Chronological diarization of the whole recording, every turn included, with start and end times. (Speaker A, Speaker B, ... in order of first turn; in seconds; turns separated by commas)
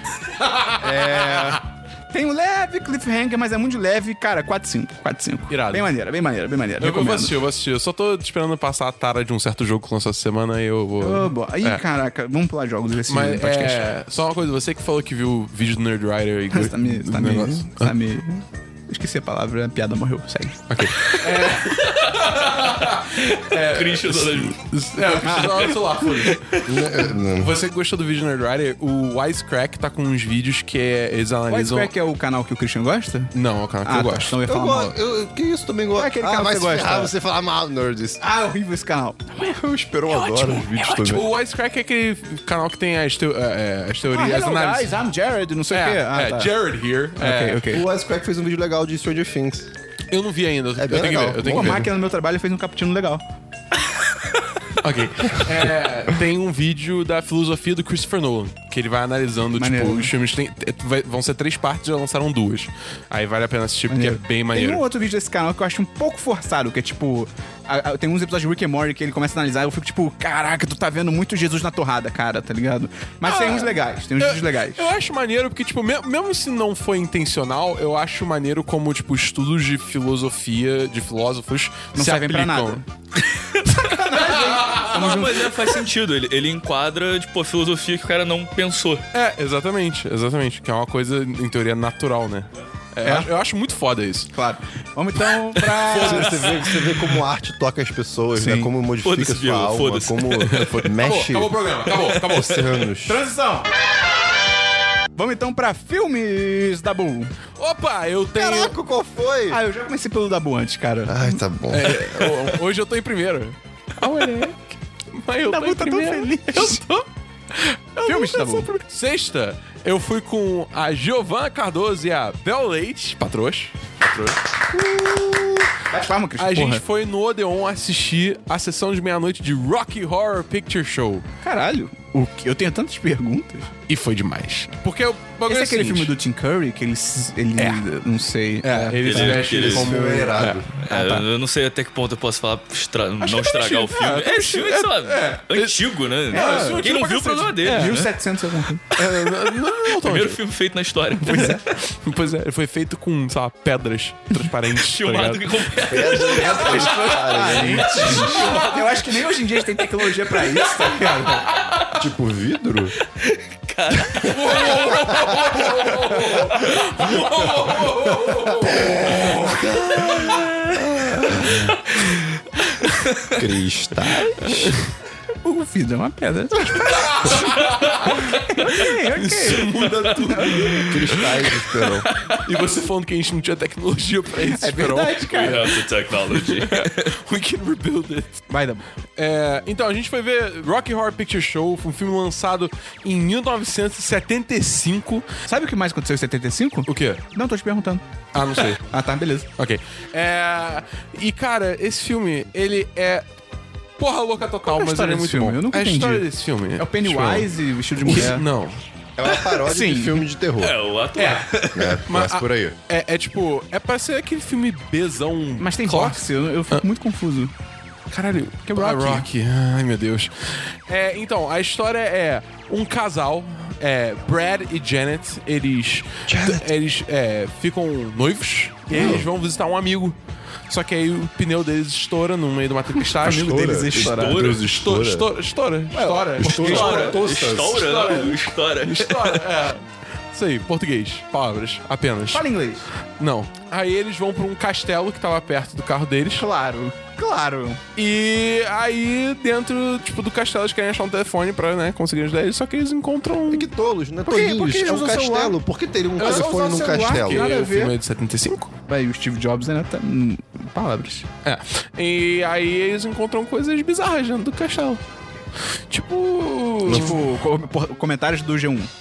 Speaker A: 0.4-1.6, Speaker B: 0.8-7.4, Speaker A: 5.5-5.9, Speaker A: 6.8-11.8, Speaker B: 11.0-13.8, Speaker A: 13.1-17.9, Speaker B: 16.5-21.2, Speaker A: 20.7-31.9, Speaker C: 22.1-24.6, Speaker B: 25.2-25.8, Speaker C: 25.3-26.7, Speaker D: 26.6-27.6, Speaker B: 31.5-33.3, Speaker A: 33.3-34.4, Speaker B: 33.8-35.0, Speaker D: 34.5-38.2, Speaker B: 36.0-37.1, Speaker B: 38.2-41.2, Speaker D: 39.5-41.3, Speaker A: 41.1-45.0, Speaker B: 44.1-46.5, Speaker A: 45.7-47.7, Speaker B: 47.2-47.8, Speaker D: 47.7-49.7, Speaker A: 50.1-51.9, Speaker D: 50.8-51.9, Speaker B: 51.4-53.2, Speaker A: 54.8-64.9, Speaker B: 59.5-60.1, Speaker B: 63.9-74.9, Speaker A: 73.3-82.8, Speaker B: 82.0-82.9, Speaker B: 83.7-85.8, Speaker A: 84.1-85.2, Speaker C: 84.8-89.1, Speaker A: 89.1-94.3, Speaker B: 93.0-93.3, Speaker B: 94.3-96.6, Speaker A: 95.7-96.8, Speaker D: 95.9-101.6, Speaker B: 98.4-98.7, Speaker C: 99.0-100.7, Speaker A: 100.5-102.7, Speaker C: 101.9-102.6, Speaker D: 102.1-103.2, Speaker B: 103.1-103.7, Speaker B: 105.2-107.3, Speaker A: 107.6-108.8, Speaker D: 108.3-109.6, Speaker B: 109.5-111.4, Speaker D: 111.1-112.5, Speaker A: 111.7-124.4, Speaker B: 115.5-116.8, Speaker B: 118.0-118.7, Speaker B: 125.8-126.8, Speaker A: 126.4-131.2, Speaker B: 131.4-133.7, Speaker A: 133.9-136.1, Speaker B: 135.5-139.4, Speaker A: 137.6-137.8, Speaker A: 138.6-140.6, Speaker C: 139.0-140.0, Speaker D: 139.3-140.7, Speaker C: 140.8-148.1, Speaker B: 140.8-141.3, Speaker A: 143.2-145.8, Speaker B: 146.3-146.9, Speaker A: 146.3-148.1, Speaker B: 147.6-148.8, Speaker A: 148.9-150.4, Speaker C: 149.0-151.6, Speaker B: 151.2-151.6, Speaker A: 151.2-159.0, Speaker C: 154.8-157.0, Speaker D: 155.8-158.3, Speaker B: 156.2-161.5, Speaker C: 158.0-158.6, Speaker A: 160.6-161.8, Speaker D: 161.9-162.9, Speaker C: 163.1-167.2, Speaker D: 164.1-171.8, Speaker A: 164.2-170.4, Speaker C: 170.0-172.3, Speaker C: 172.8-173.4, Speaker D: 173.3-174.8, Speaker A: 174.4-174.8, Speaker B: 175.4-180.8, Speaker A: 176.8-185.8, Speaker C: 179.9-180.5, Speaker D: 180.9-182.1, Speaker B: 184.4-185.8, Speaker C: 185.3-187.1, Speaker A: 186.3-188.4, Speaker B: 188.5-188.8, Speaker A: 189.2-195.3, Speaker B: 195.5-198.0, Speaker A: 196.9-197.2, Speaker A: 198.3-198.8, Speaker B: 198.8-199.5, Speaker A: 199.6-203.3, Speaker A: 204.0-208.8, Speaker B: 204.7-208.5, Speaker D: 209.2-210.8, Speaker B: 209.3-210.2, Speaker C: 210.6-212.0, Speaker A: 211.2-216.8, Speaker D: 211.7-212.8, Speaker B: 215.6-217.5, Speaker A: 218.1-230.2, Speaker B: 218.7-219.3, Speaker D: 226.3-226.7, Speaker B: 228.9-229.2, Speaker D: 228.9-229.3, Speaker A: 230.7-233.7, Speaker B: 233.0-234.4, Speaker D: 233.3-235.3, Speaker C: 234.0-234.7, Speaker A: 234.4-237.2, Speaker B: 235.9-237.1, Speaker D: 236.4-238.1, Speaker C: 236.4-239.4, Speaker A: 237.8-242.4, Speaker B: 242.3-242.9, Speaker A: 243.2-246.5, Speaker B: 246.3-247.8, Speaker A: 248.0-253.7, Speaker D: 253.5-257.5, Speaker B: 254.3-255.6, Speaker B: 256.2-258.0, Speaker A: 256.2-258.7, Speaker B: 258.9-261.3, Speaker A: 261.4-265.0, Speaker A: 265.9-267.2, Speaker D: 266.8-267.2, Speaker B: 266.9-268.9